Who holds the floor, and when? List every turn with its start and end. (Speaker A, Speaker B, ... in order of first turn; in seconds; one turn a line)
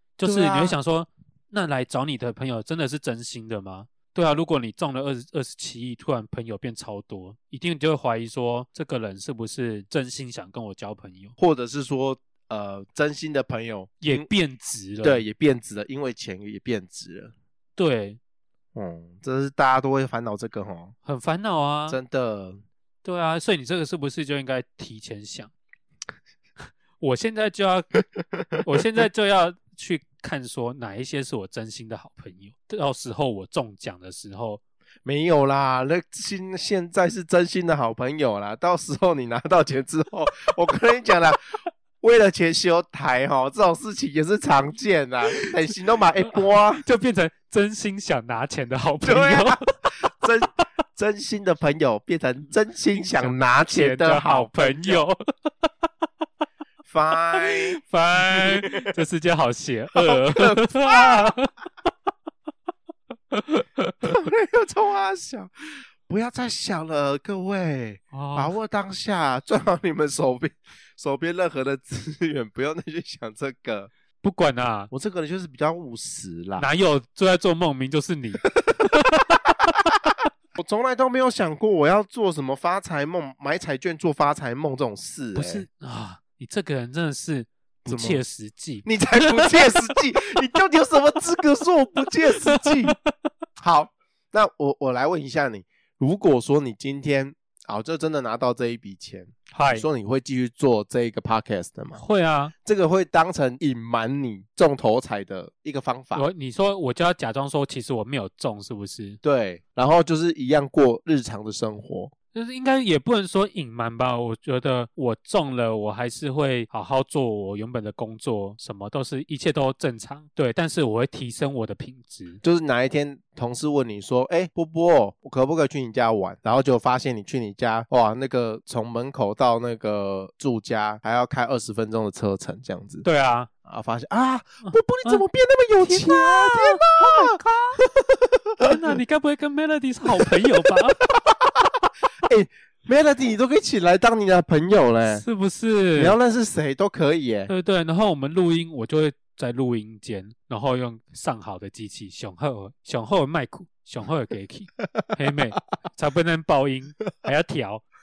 Speaker A: 0.2-11.3
Speaker B: 0.2-0.8
Speaker B: 11.4-14.3
Speaker A: 14.0-15.2
Speaker B: 15.0-17.3
Speaker A: 17.8-18.2
Speaker B: 18.7-20.9
Speaker A: 21.0-22.0
Speaker B: 21.9-22.6
Speaker A: 23.0-25.5
Speaker A: 27.0-28.0
Speaker A: 28.6-34.6
Speaker B: 35.0-41.4
Speaker B: 42.0-46.8
Speaker A: 46.3-49.7
Speaker B: 49.0-55.0
Speaker A: 52.9-55.7
Speaker B: 56.9-58.9
Speaker A: 57.4-61.5
Speaker B: 59.9-61.4
Speaker A: 63.3-64.1
Speaker B: 64.0-65.5
Speaker B: 66.0-73.9
Speaker A: 68.1-68.5
Speaker A: 74.2-74.9
Speaker B: 74.9-76.7
Speaker A: 76.6-79.4
Speaker B: 80.5-85.6
Speaker A: 85.3-89.7
Speaker B: 87.9-88.2
Speaker B: 88.8-93.0
Speaker A: 92.2-93.1
Speaker B: 93.6-102.0
Speaker A: 99.5-99.8
Speaker A: 102.0-102.5
Speaker B: 102.6-106.2
Speaker A: 106.1-109.2
Speaker B: 109.2-112.1
Speaker A: 112.3-122.4
Speaker B: 122.4-133.0
Speaker A: 133.0-133.5
Speaker B: 133.6-138.7
Speaker A: 134.7-135.2
Speaker A: 135.8-137.8
Speaker A: 138.6-141.0
Speaker B: 140.2-141.3
Speaker B: 142.2-145.2
Speaker A: 145.1-146.2
Speaker B: 145.9-147.5
Speaker A: 147.5-157.8